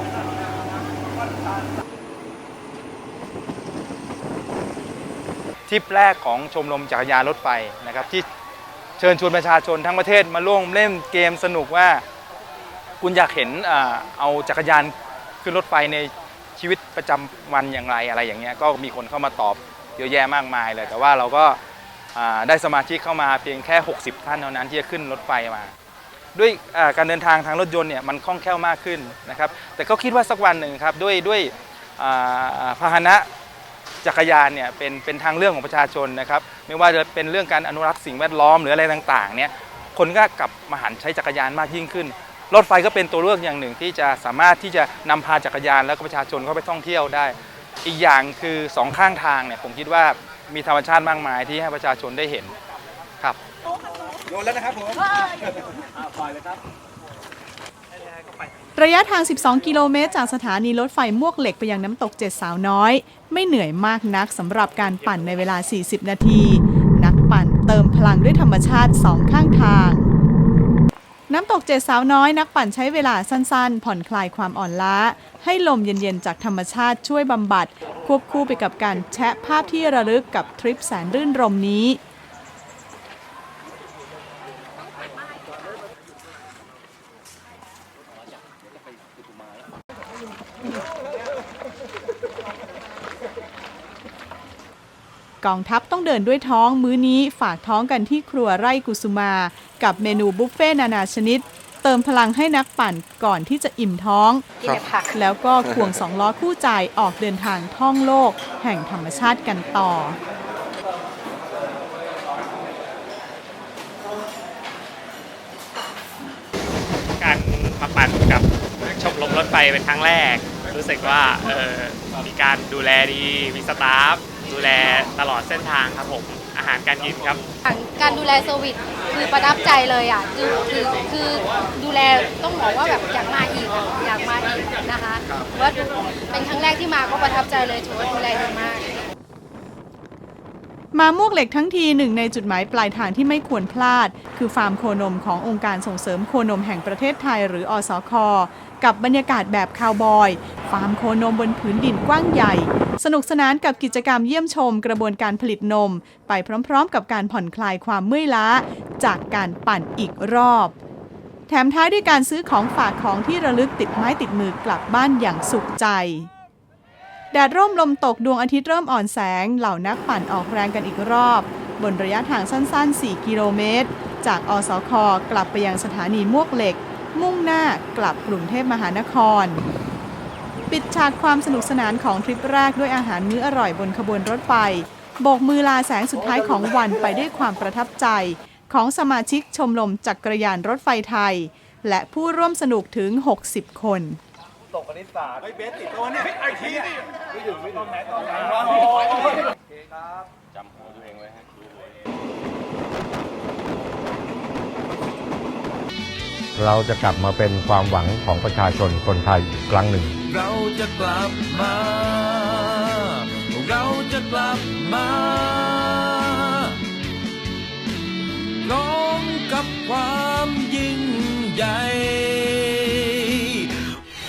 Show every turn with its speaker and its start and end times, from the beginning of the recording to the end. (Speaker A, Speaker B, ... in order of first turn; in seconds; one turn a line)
Speaker A: 5.7-8.2
Speaker A: 9.0-12.0
Speaker A: 13.0-21.6
Speaker A: 22.1-25.7
Speaker A: 26.3-33.3
Speaker A: 34.0-52.5
Speaker B: 58.8-70.1
Speaker B: 71.3-82.0
Speaker B: 95.4-104.5
Speaker C: 104.6-105.1
Speaker B: 105.1-110.2
Speaker D: 117.2-127.4
Speaker C: 127.6-139.0
Speaker B: 140.9-160.7
Speaker B: 161.5-166.3
Speaker B: 167.3-179.6
Speaker B: 180.7-194.2
Speaker E: 206.6-210.1
Speaker F: 210.2-216.8
Speaker F: 218.6-223.9